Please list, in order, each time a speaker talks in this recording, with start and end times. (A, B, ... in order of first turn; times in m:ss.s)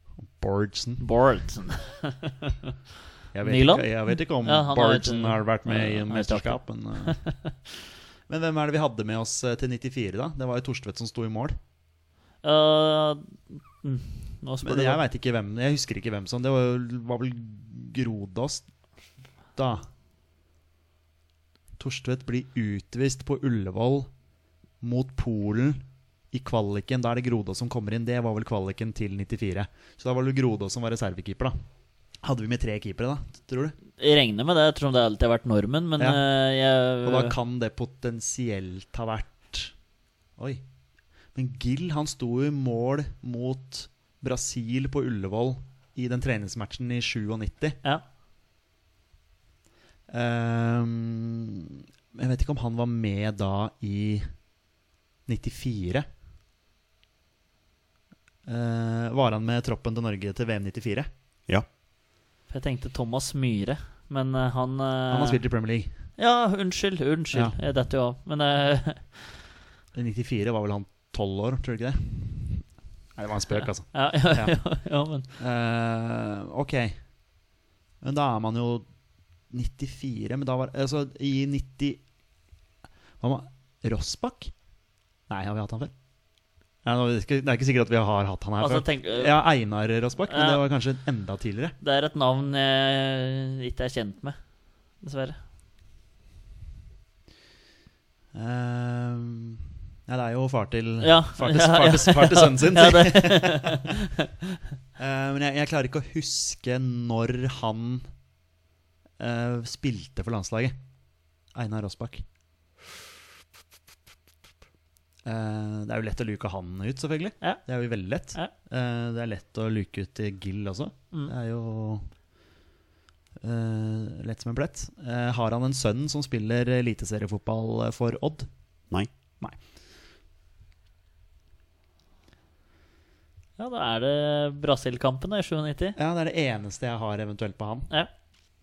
0:00.2-0:01.0 A
0:01.0-0:02.7 B
0:03.3-0:07.2 A
0:03.4-0:07.5 B
0:08.3-0:11.6 A
0:12.4-0:15.0 B
0:14.6-0:18.6 A
0:19.6-0:19.8 A
0:21.8-0:24.1 A
0:24.8-0:31.6 A
0:32.2-0:33.8 A
0:34.0-0:37.3 B
0:37.0-0:39.7 A
0:41.3-0:47.8 A
0:50.1-0:54.3 A
0:55.3-0:56.0 A
0:58.4-1:01.1 A
1:02.5-1:05.4 B
1:05.1-1:05.9 A
1:06.2-1:09.3 B
1:09.9-1:12.6 A
1:13.2-1:14.5 A
1:13.9-1:15.2 B
1:15.4-1:17.0 A
1:18.0-1:18.8 A
1:19.5-1:22.0 A
1:23.2-1:24.5 A
1:25.3-1:25.9 A
1:26.8-1:31.8 A
1:28.6-1:29.3 B
1:30.3-1:30.6 B
1:31.8-1:34.4 B
1:35.0-1:35.4 B
1:38.3-1:43.9 A
1:41.0-1:44.5 B
1:45.0-1:48.1 A
1:49.2-1:50.8 A
1:51.5-1:52.2 A
1:55.2-2:02.0 A
2:03.4-2:08.5 A
2:13.6-2:16.0 B
2:16.0-2:17.9 A